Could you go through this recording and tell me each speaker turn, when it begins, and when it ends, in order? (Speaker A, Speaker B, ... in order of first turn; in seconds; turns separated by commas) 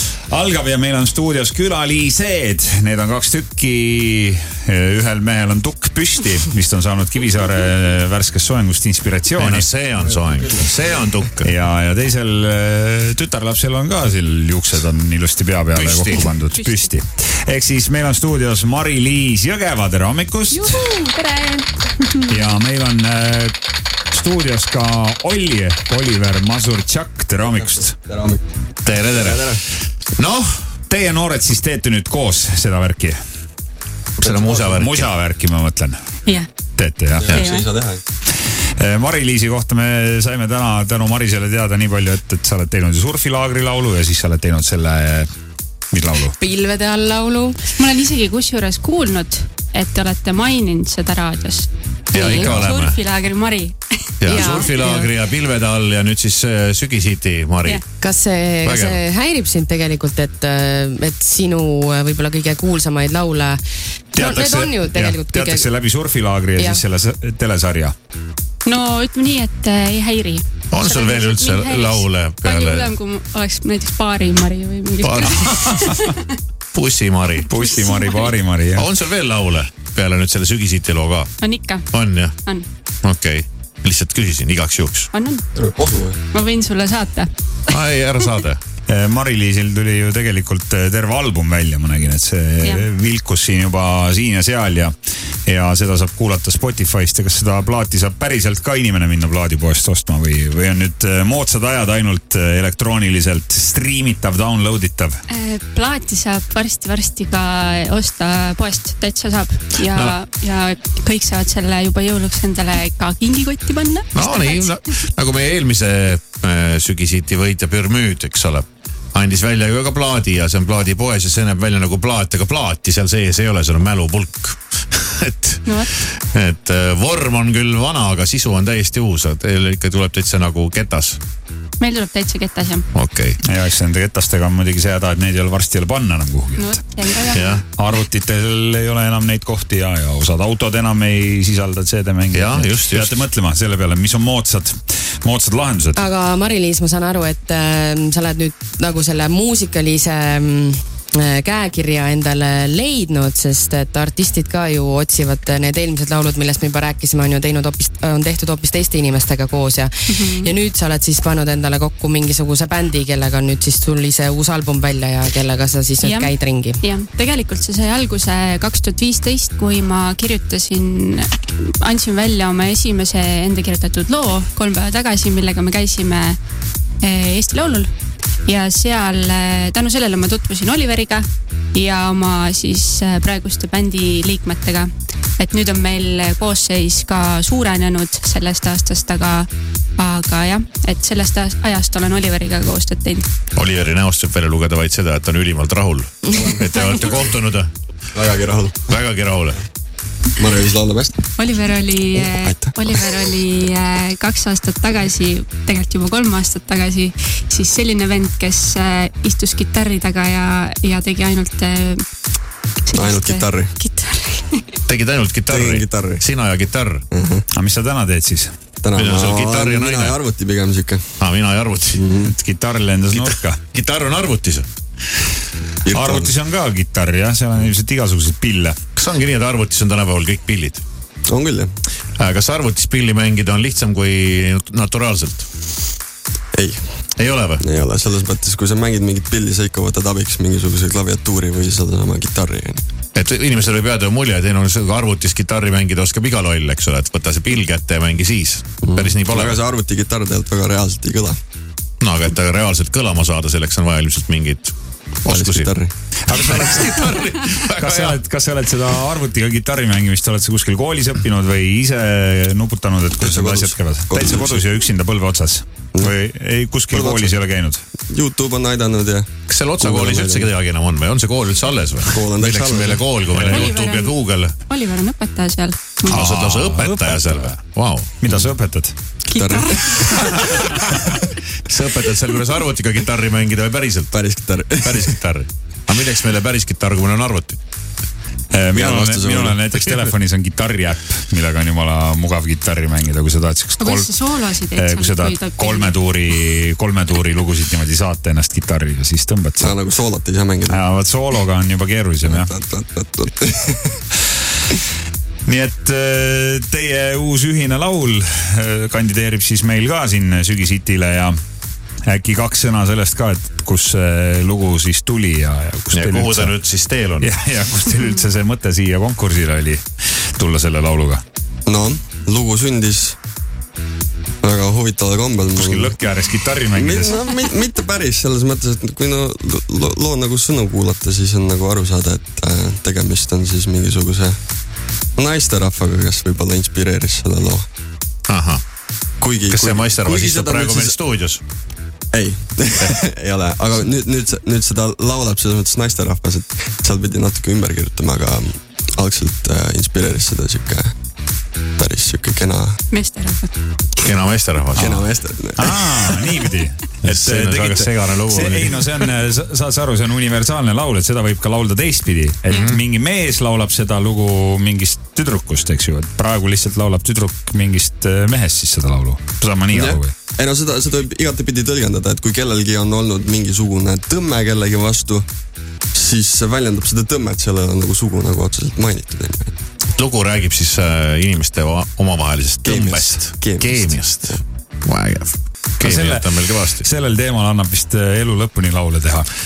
Speaker A: 0.3-9.7, Speaker B: 9.4-11.5, Speaker A: 11.4-20.9, Speaker B: 15.8-16.3, Speaker C: 16.6-16.9, Speaker C: 20.5-22.5, Speaker A: 22.3-23.5, Speaker A: 24.1-27.9, Speaker D: 27.6-29.6, Speaker B: 28.9-29.6, Speaker B: 30.2-30.5, Speaker A: 30.9-33.2, Speaker B: 34.2-35.1, Speaker D: 34.2-34.8, Speaker A: 34.8-36.0, Speaker A: 36.8-37.4, Speaker D: 37.2-38.0, Speaker C: 37.3-37.7, Speaker A: 38.8-45.3, Speaker A: 45.9-46.4, Speaker E: 46.3-47.7, Speaker C: 47.8-54.7, Speaker B: 52.1-53.0, Speaker E: 52.2-52.6, Speaker B: 54.2-57.8, Speaker E: 54.3-55.1, Speaker E: 58.0-63.6, Speaker B: 58.6-59.0, Speaker E: 64.1-65.7, Speaker A: 64.2-67.9, Speaker E: 66.6-66.8, Speaker C: 68.7-76.4, Speaker B: 70.7-72.9, Speaker B: 75.0-75.8, Speaker A: 75.4-75.9, Speaker B: 76.7-77.7, Speaker A: 77.5-78.9, Speaker C: 77.7-78.3, Speaker B: 78.8-81.3, Speaker C: 81.4-82.7, Speaker B: 81.9-82.3, Speaker B: 83.0-85.1, Speaker C: 85.1-85.4, Speaker D: 85.6-86.2, Speaker C: 86.3-87.3, Speaker B: 87.7-88.6, Speaker A: 88.9-94.9, Speaker A: 95.5-105.2, Speaker C: 105.3-114.8, Speaker B: 109.8-110.2, Speaker B: 114.2-131.2, Speaker C: 131.8-132.8, Speaker B: 132.9-133.4, Speaker A: 133.4-136.8, Speaker C: 136.6-137.6, Speaker B: 137.3-137.6, Speaker A: 137.8-146.0, Speaker B: 142.3-143.2, Speaker E: 145.9-166.8, Speaker C: 160.1-160.5, Speaker C: 166.0-176.4, Speaker C: 177.0-177.9, Speaker C: 178.4-193.3, Speaker B: 193.6-197.7, Speaker D: 196.3-197.1, Speaker C: 196.8-197.1, Speaker D: 198.1-198.9, Speaker B: 198.9-199.6, Speaker D: 200.4-201.3, Speaker C: 201.4-212.0, Speaker D: 202.1-203.1, Speaker C: 212.9-214.8, Speaker D: 212.9-213.7, Speaker B: 214.9-217.0, Speaker D: 215.5-216.2, Speaker D: 217.1-217.4, Speaker A: 217.5-218.5, Speaker D: 218.8-221.2, Speaker B: 218.9-220.2, Speaker B: 221.2-222.0, Speaker D: 221.9-222.3, Speaker A: 222.2-223.6, Speaker B: 223.1-224.7, Speaker D: 225.8-226.3, Speaker A: 225.9-228.8, Speaker B: 229.0-230.8, Speaker D: 231.3-231.7, Speaker B: 232.2-235.5, Speaker D: 236.5-236.8, Speaker B: 237.2-237.6, Speaker D: 237.6-242.8, Speaker B: 243.2-249.6, Speaker D: 248.8-251.4, Speaker B: 252.0-255.7, Speaker D: 255.3-255.9, Speaker A: 256.3-267.8, Speaker B: 256.3-258.2, Speaker D: 263.2-264.6, Speaker D: 266.9-267.4, Speaker D: 268.1-270.5, Speaker B: 269.5-274.6, Speaker D: 272.1-273.1, Speaker A: 273.3-273.7, Speaker C: 273.4-276.2, Speaker B: 276.1-278.1, Speaker A: 276.1-277.6, Speaker A: 278.2-278.9, Speaker D: 279.3-280.5, Speaker C: 279.3-280.2, Speaker A: 280.2-280.7, Speaker B: 281.6-284.1, Speaker D: 284.1-285.1, Speaker B: 284.8-287.6, Speaker A: 288.5-294.1, Speaker D: 288.7-289.9, Speaker C: 293.8-295.9, Speaker A: 294.7-299.7, Speaker D: 299.6-300.8, Speaker A: 300.7-302.5, Speaker D: 302.2-304.0, Speaker A: 305.5-311.4, Speaker A: 312.1-316.6, Speaker B: 315.9-317.3, Speaker A: 317.2-321.2, Speaker D: 321.7-323.2, Speaker D: 324.4-325.9, Speaker A: 325.6-327.2, Speaker D: 326.7-334.4, Speaker D: 335.2-337.7, Speaker B: 338.3-338.6, Speaker D: 339.2-341.0, Speaker B: 339.5-341.4, Speaker D: 342.1-350.9, Speaker B: 342.8-343.1, Speaker D: 351.8-352.8, Speaker C: 352.9-353.5, Speaker B: 354.0-355.1, Speaker D: 354.8-356.1, Speaker A: 355.6-370.1, Speaker B: 357.0-359.1, Speaker B: 362.5-362.8, Speaker D: 369.7-375.3, Speaker D: 375.9-379.5, Speaker B: 379.9-386.9, Speaker D: 382.6-384.4, Speaker A: 385.8-389.3